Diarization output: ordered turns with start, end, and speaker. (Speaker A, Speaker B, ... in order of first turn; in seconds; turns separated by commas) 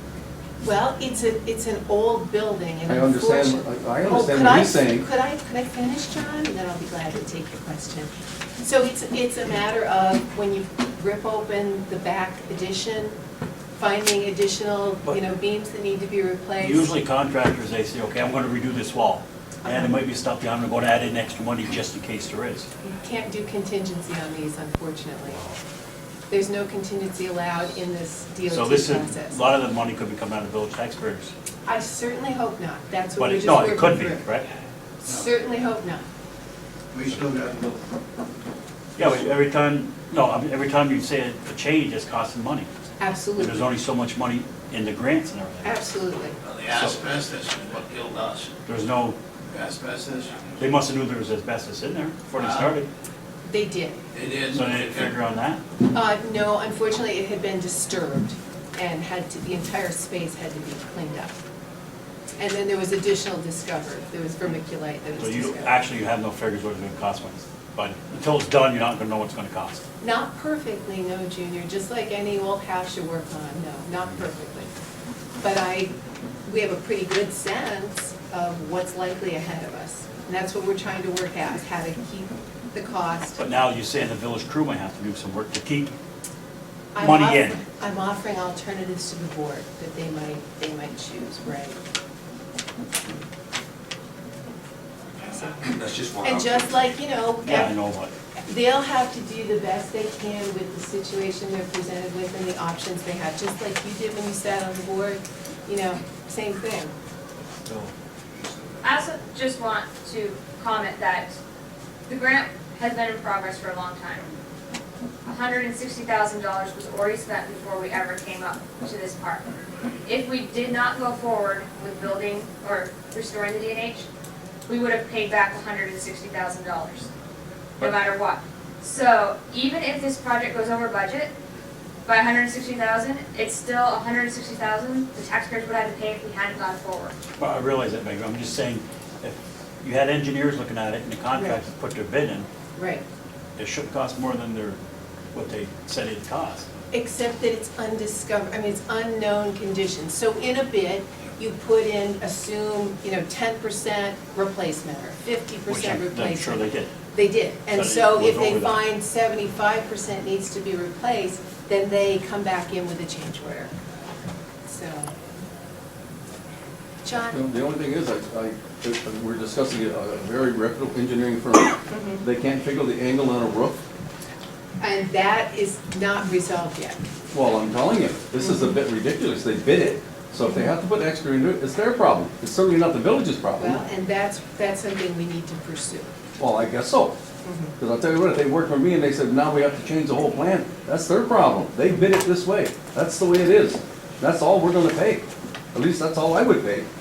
Speaker A: 0.6-13.1, Speaker B: 2.9-5.0, Speaker A: 13.8-16.9, Speaker C: 16.6-22.7, Speaker A: 19.6-20.0, Speaker A: 22.8-25.4, Speaker A: 26.3-29.4, Speaker C: 28.5-31.3, Speaker A: 31.6-34.3, Speaker C: 33.2-34.5, Speaker A: 35.0-36.0, Speaker D: 36.9-37.8, Speaker C: 39.0-42.7, Speaker A: 43.0-43.7, Speaker C: 43.4-45.8, Speaker A: 45.6-46.4, Speaker D: 46.4-48.5, Speaker C: 48.6-49.2, Speaker D: 49.5-50.6, Speaker C: 50.6-52.9, Speaker D: 52.4-52.7, Speaker A: 53.4-54.0, Speaker D: 54.1-55.1, Speaker C: 54.5-55.6, Speaker A: 55.9-61.4, Speaker A: 62.4-65.8, Speaker C: 65.2-69.8, Speaker A: 70.0-74.7, Speaker A: 75.4-75.9, Speaker A: 76.4-83.4, Speaker C: 83.4-85.9, Speaker A: 86.9-91.8, Speaker C: 87.0-87.6, Speaker D: 95.7-96.6, Speaker A: 96.2-97.7, Speaker C: 97.5-98.1, Speaker A: 98.5-106.9, Speaker C: 107.6-107.9, Speaker E: 108.8-111.3, Speaker E: 112.1-114.3, Speaker E: 115.2-119.5, Speaker E: 120.0-124.0, Speaker E: 124.7-127.1, Speaker E: 127.8-131.3, Speaker E: 132.1-137.1, Speaker C: 137.4-142.5, Speaker A: 142.7-143.0, Speaker C: 143.6-144.8, Speaker C: 145.3-146.7, Speaker A: 146.9-163.7, Speaker C: 155.7-156.9, Speaker C: 157.7-158.8, Speaker A: 164.7-165.1, Speaker A: 167.0-167.4, Speaker B: 167.3-173.8, Speaker A: 171.9-172.2, Speaker A: 174.8-177.0, Speaker B: 177.3-183.8, Speaker A: 178.4-178.8, Speaker A: 183.6-186.1, Speaker B: 186.4-187.2, Speaker A: 187.4-187.7, Speaker B: 187.8-196.9